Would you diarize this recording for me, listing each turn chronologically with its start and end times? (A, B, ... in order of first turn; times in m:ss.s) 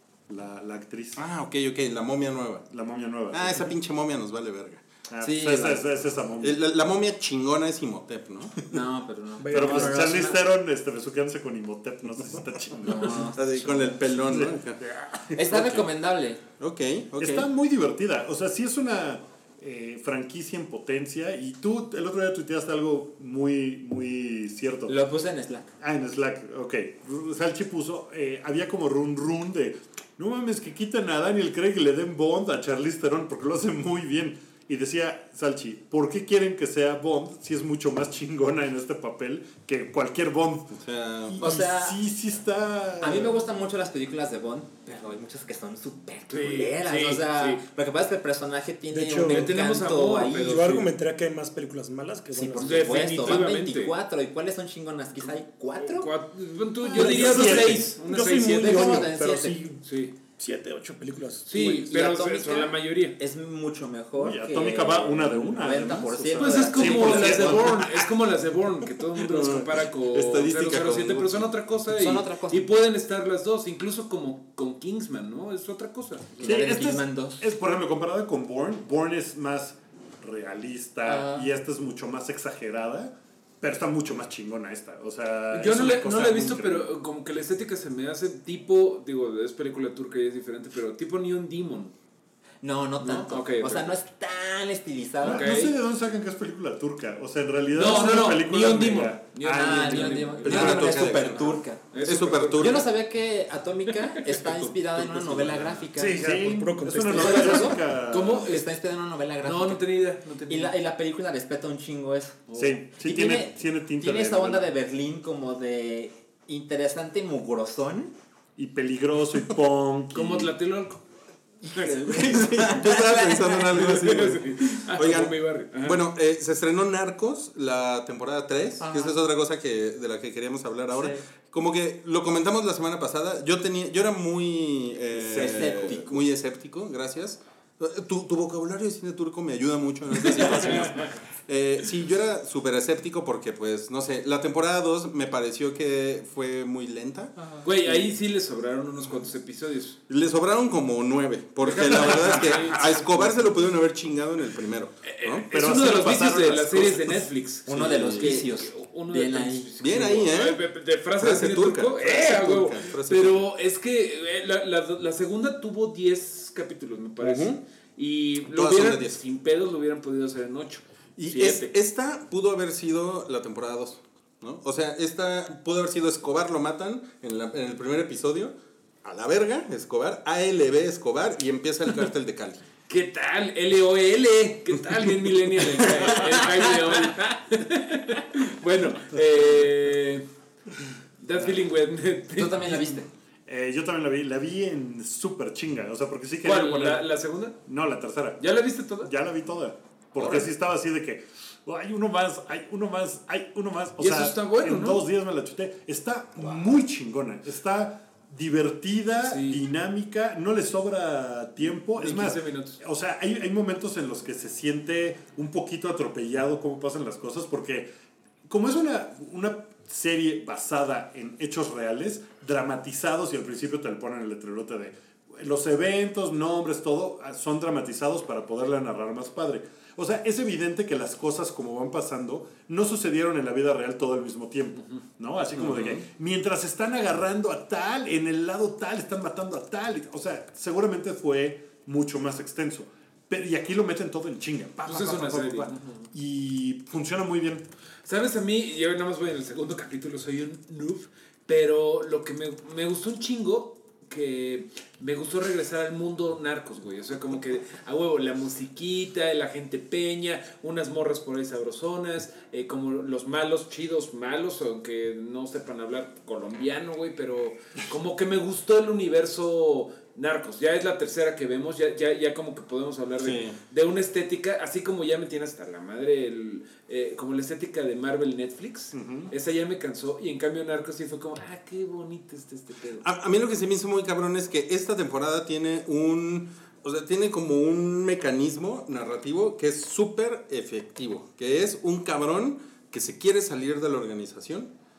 0:00.3-0:01.2 A
0:01.2-0:02.7 B
0:02.7-0:03.7 A
0:03.3-0:04.8 B
0:05.1-0:06.6 A
0:05.2-0:05.8 C
0:06.4-0:08.6 B
0:08.7-0:10.4 C
0:09.4-0:10.3 D
0:09.5-0:13.3 A
0:12.8-0:14.3 C
0:13.1-0:14.8 B
0:14.2-0:15.4 A
0:15.2-0:16.4 C
0:15.5-0:15.9 B
0:16.6-0:17.4 B
0:17.2-0:25.0 A
0:24.9-0:25.7 C
0:25.8-0:40.7 A
0:40.7-0:41.4 B
0:41.3-0:43.4 A
0:41.4-0:42.0 C
0:43.0-0:50.6 C
0:46.3-0:47.6 E
0:48.9-0:49.5 D
0:49.2-0:50.9 E
0:50.4-0:53.3 D
0:52.3-0:56.1 C
0:52.6-0:53.9 E
0:55.8-0:59.0 E
0:56.8-0:58.0 A
0:56.9-0:59.8 D
0:56.9-0:57.5 C
0:58.4-0:59.6 C
0:58.7-0:59.6 A
0:59.8-1:00.1 E
1:00.4-1:01.5 D
1:01.4-1:03.2 E
1:01.5-1:07.7 C
1:04.2-1:07.9 A
1:06.4-1:16.5 E
1:09.1-1:11.5 B
1:11.9-1:12.7 C
1:16.4-1:17.4 C
1:16.4-1:26.9 A
1:21.0-1:21.5 C
1:25.5-1:31.9 E
1:32.6-1:35.5 C
1:33.0-1:33.9 E
1:35.2-1:41.0 A
1:35.2-1:35.8 E
1:37.7-1:41.1 E
1:39.4-1:41.8 C
1:40.4-1:42.8 B
1:41.9-1:42.8 E
1:42.5-1:46.2 C
1:43.9-1:44.2 E
1:44.3-1:45.9 B
1:46.0-1:47.8 D
1:46.0-1:48.5 A
1:47.1-1:49.8 C
1:48.1-1:48.7 E
1:49.4-1:50.7 E
1:50.5-1:52.4 C
1:52.5-1:52.8 E
1:52.5-1:54.7 A
1:53.0-1:58.1 C
1:58.6-2:00.5 A
2:00.1-2:01.0 E
2:01.6-2:03.9 C
2:01.7-2:02.4 E
2:02.2-2:27.4 B
2:03.7-2:06.0 E
2:08.8-2:09.2 C
2:10.9-2:11.2 C
2:15.1-2:16.2 C
2:20.2-2:21.1 E
2:27.4-2:27.6 C
2:27.6-2:30.0 E
2:30.1-2:35.5 B
2:31.6-2:33.5 E
2:35.0-2:51.7 E
2:35.5-2:37.3 A
2:37.6-2:39.7 C
2:37.7-2:38.3 B
2:39.8-2:40.6 B
2:41.2-2:43.5 B
2:47.2-2:47.6 B
2:48.4-2:49.2 B
2:51.2-3:02.6 B
3:02.9-3:10.3 E
3:06.1-3:07.1 C
3:11.2-3:13.0 E
3:12.4-3:13.1 C
3:13.4-3:17.1 A
3:16.4-3:17.6 E
3:17.6-3:18.4 A
3:18.4-3:19.1 E
3:19.0-3:37.9 A
3:24.0-3:25.0 E
3:29.2-3:29.6 E
3:31.9-3:32.8 E
3:38.4-4:07.6 A
4:04.8-4:06.1 E
4:08.0-4:43.0 E
4:33.2-4:33.6 B
4:38.9-4:39.3 A
4:43.0-4:54.7 B